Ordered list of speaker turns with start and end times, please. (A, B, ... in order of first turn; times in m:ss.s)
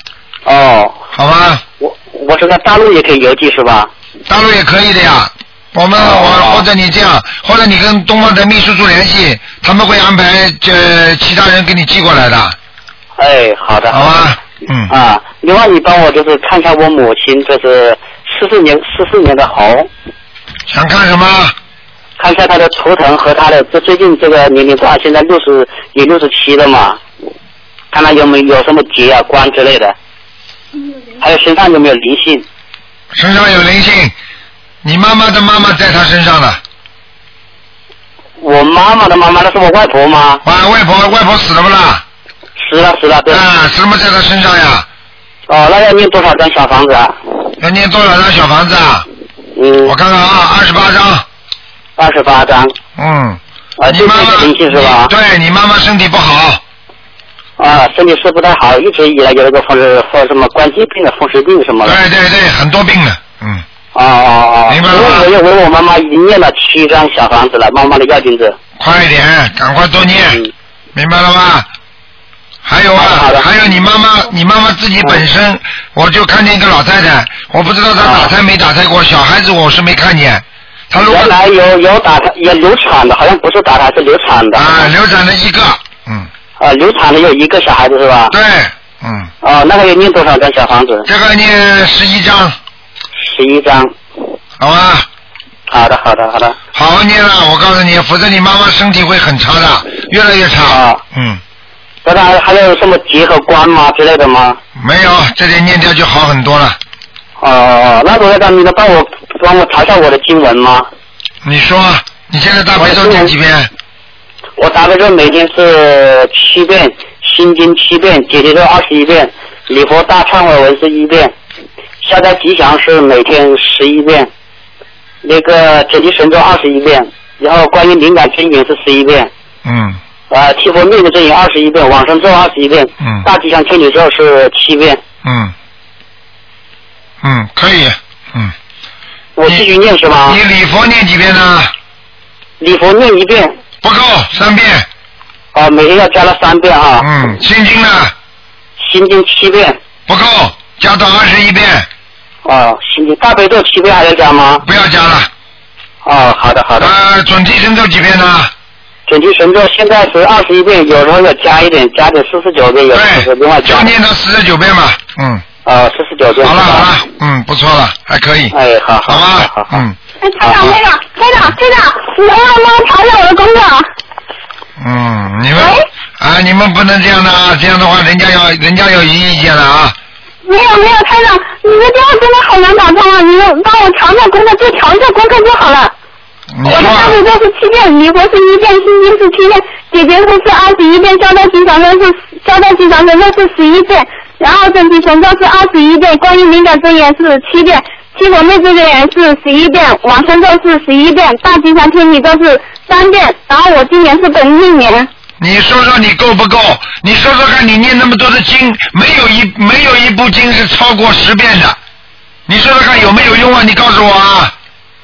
0:00.4-0:01.0 A
0:01.1-0:01.6 B
0:01.8-0:03.9 A
0:04.3-0:12.6 B
0:06.0-0:06.6 A
0:13.2-0:14.3 A
0:13.9-0:14.9 B
0:14.9-0:19.9 A
0:20.7-0:21.5 B
0:22.2-0:27.0 A
0:27.9-0:29.9 A
0:31.2-0:32.4 A
0:33.1-0:34.1 B
0:34.8-0:36.6 B
0:38.4-0:40.4 A
0:40.4-0:42.0 B
0:42.6-0:43.4 A
0:43.3-0:44.8 B
0:45.5-0:47.3 A
0:47.6-0:49.0 B
0:49.6-0:49.9 A
0:49.8-0:51.2 B
0:52.0-0:52.7 A
0:53.0-0:56.6 B
0:53.8-0:55.1 A
0:57.6-1:02.0 A
1:01.8-1:03.6 B
1:03.9-1:08.6 A
1:04.7-1:05.3 B
1:08.8-1:10.4 B
1:10.9-1:11.7 B
1:12.6-1:21.3 B
1:13.0-1:13.4 A
1:18.0-1:18.3 A
1:21.0-1:24.9 A
1:24.5-1:26.3 B
1:26.6-1:28.3 A
1:28.3-1:29.3 B
1:29.4-1:31.1 A
1:31.1-1:32.6 B
1:33.2-1:33.9 A
1:34.6-1:35.1 B
1:35.7-1:36.6 A
1:36.7-1:41.4 B
1:40.7-1:41.0 A
1:42.0-1:44.6 A
1:44.8-1:46.8 B
1:47.4-1:50.9 A
1:51.4-1:53.7 B
1:52.8-1:53.3 A
1:54.6-2:01.3 A
2:02.0-2:04.3 A
2:05.2-2:09.3 A
2:09.6-2:10.0 B
2:10.3-2:15.0 A
2:15.2-2:15.5 B
2:17.2-2:18.5 B
2:19.4-2:20.4 A
2:20.2-2:21.7 B
2:22.6-2:23.6 A
2:23.8-2:24.9 B
2:25.5-2:27.1 A
2:27.0-2:28.1 B
2:28.8-2:29.8 A
2:30.1-2:31.9 B
2:32.4-2:34.6 A
2:34.6-2:35.3 B
2:36.0-2:36.9 A
2:36.8-2:38.5 B
2:39.1-2:43.9 A
2:42.9-2:45.4 B
2:45.6-2:46.9 A
2:46.4-2:48.5 B
2:48.5-2:49.8 A
2:49.0-2:50.0 B
2:50.2-2:53.9 C
2:50.4-2:50.7 A
2:54.8-3:00.0 B
2:55.5-2:55.8 C
3:00.4-3:05.9 C
3:06.5-3:07.2 B
3:06.6-3:25.1 C
3:25.4-3:31.8 B
3:32.5-3:34.5 B